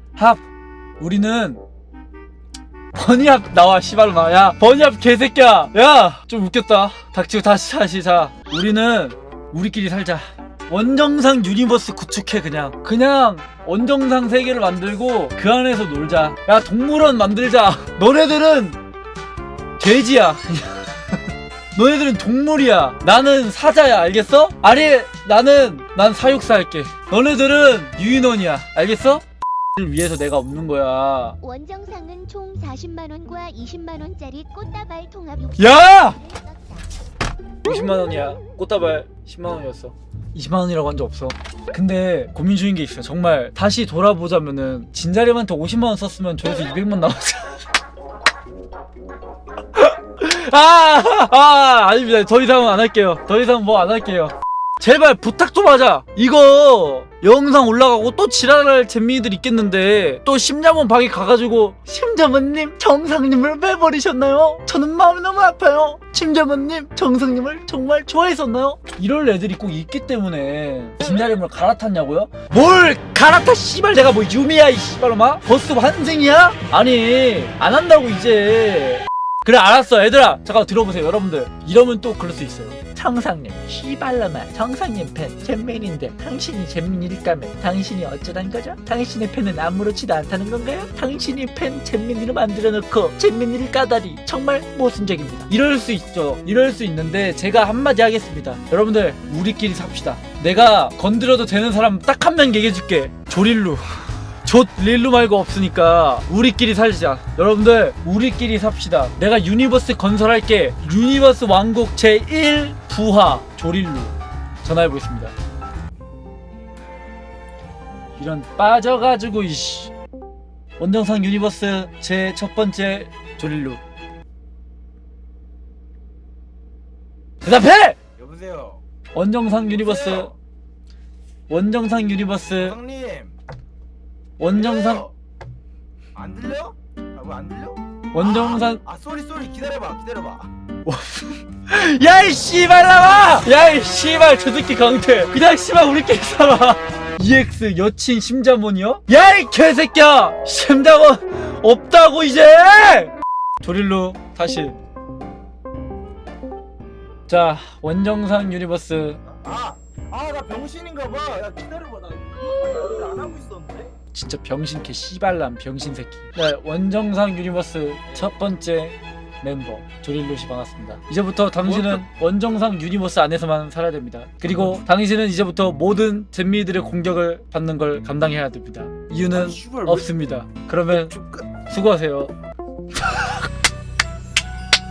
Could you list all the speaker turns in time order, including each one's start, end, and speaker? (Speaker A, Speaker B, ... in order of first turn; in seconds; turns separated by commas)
Speaker A: 0.1-0.4, Speaker A: 1.0-1.6, Speaker A: 2.9-18.8, Speaker A: 19.8-21.2, Speaker A: 21.8-29.2, Speaker A: 29.8-31.4, Speaker B: 31.4-36.9, Speaker A: 35.6-36.3, Speaker A: 37.6-47.6, Speaker A: 49.6-115.3, Speaker A: 118.2-119.9, Speaker A: 120.8-123.8, Speaker A: 127.4-128.0, Speaker C: 128.2-128.8, Speaker A: 129.1-130.3, Speaker C: 129.8-130.3, Speaker A: 131.5-132.8, Speaker C: 132.6-133.4, Speaker A: 134.4-135.1, Speaker C: 134.7-135.1, Speaker C: 136.1-140.5, Speaker A: 138.1-138.8, Speaker A: 140.8-154.8, Speaker A: 157.3-159.2, Speaker C: 159.3-163.9, Speaker A: 164.1-182.3, Speaker C: 179.6-179.9, Speaker A: 182.9-183.5